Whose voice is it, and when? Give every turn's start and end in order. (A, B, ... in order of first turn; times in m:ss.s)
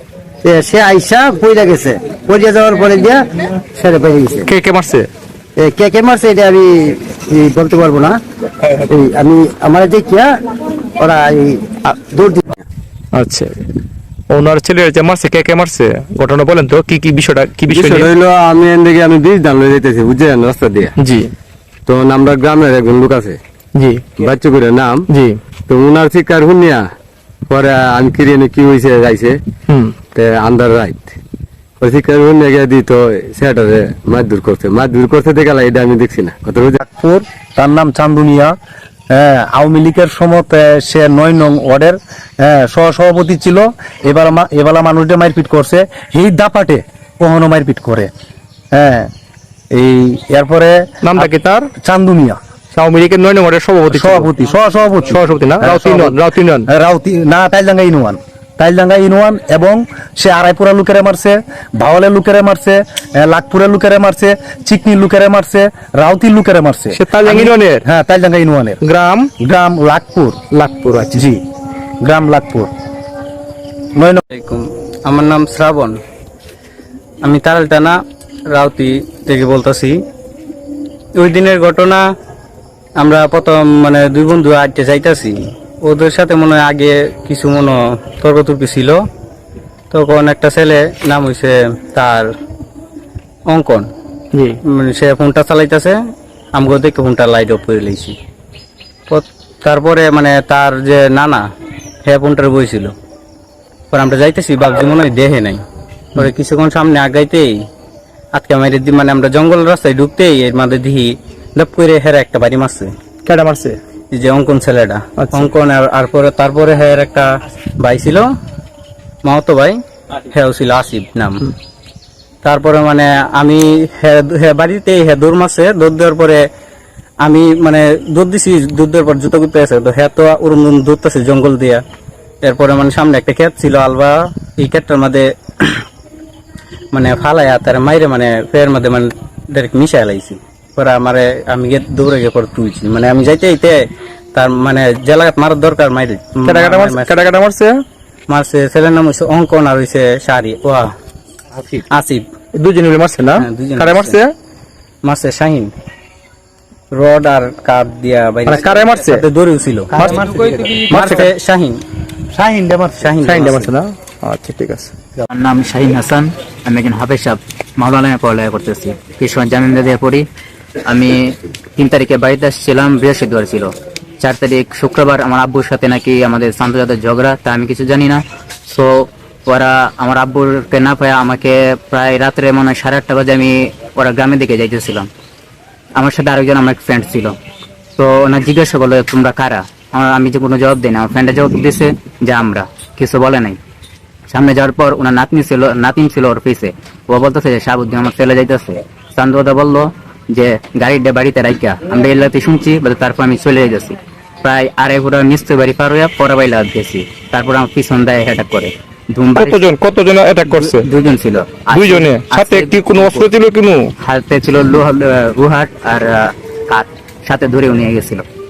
0:00.4-0:04.5 A
0:04.5-0:05.1 B
0:05.6-0:08.2 A
0:08.8-0:10.3 A
0:11.0-0:12.4 A
0:13.1-0:13.5 B
0:14.3-0:18.1 B
0:17.7-0:20.9 C
0:21.0-0:21.3 B
0:21.9-0:23.4 C
0:23.7-0:24.1 B
0:24.2-0:25.0 C
0:25.1-0:25.4 B
0:25.6-0:26.8 C
0:27.5-0:29.4 C
0:30.1-0:31.2 C
0:31.8-0:36.8 C
0:36.8-0:38.5 D
0:39.1-0:48.1 D
0:48.7-0:49.1 D
0:49.7-0:52.4 D
0:51.0-0:51.7 B
0:52.7-0:54.3 B
0:53.9-1:08.8 D
0:55.1-0:56.7 B
1:06.9-1:07.8 B
1:08.8-1:09.3 B
1:09.4-1:10.4 D
1:10.5-1:11.2 B
1:11.1-1:11.4 D
1:12.0-1:12.7 D
1:14.3-1:16.0 E
1:17.2-1:20.0 E
1:21.2-1:22.0 E
1:23.0-1:29.0 E
1:29.9-1:32.3 E
1:33.5-1:33.9 E
1:34.3-1:34.6 B
1:34.7-1:36.0 E
1:36.5-1:38.2 E
1:39.1-1:41.4 E
1:42.0-1:42.9 E
1:43.9-1:45.6 E
1:46.2-1:47.6 E
1:48.3-1:52.9 E
1:53.2-1:53.8 B
1:54.1-1:58.3 E
1:55.2-1:55.4 B
1:59.2-1:59.8 E
2:00.3-2:01.4 E
2:02.4-2:06.4 E
2:07.2-2:11.8 E
2:12.4-2:15.8 E
2:16.9-2:23.8 E
2:24.3-2:27.3 E
2:26.4-2:27.8 B
2:28.3-2:30.9 E
2:31.9-2:32.2 E
2:32.5-2:34.3 B
2:33.4-2:34.2 E
2:35.0-2:35.7 E
2:36.9-2:39.9 E
2:38.5-2:39.2 B
2:39.9-2:41.1 D
2:40.8-2:41.3 B
2:40.9-2:41.8 E
2:42.3-2:43.1 D
2:43.0-2:43.7 E
2:43.2-2:44.9 B
2:45.3-2:50.2 F
2:50.9-3:05.1 F
3:06.0-3:07.3 F
3:08.0-3:13.6 F
3:14.3-3:29.6 F
3:29.3-3:30.9 B
3:30.4-3:33.3 F
3:31.7-3:33.9 B
3:34.0-3:38.2 F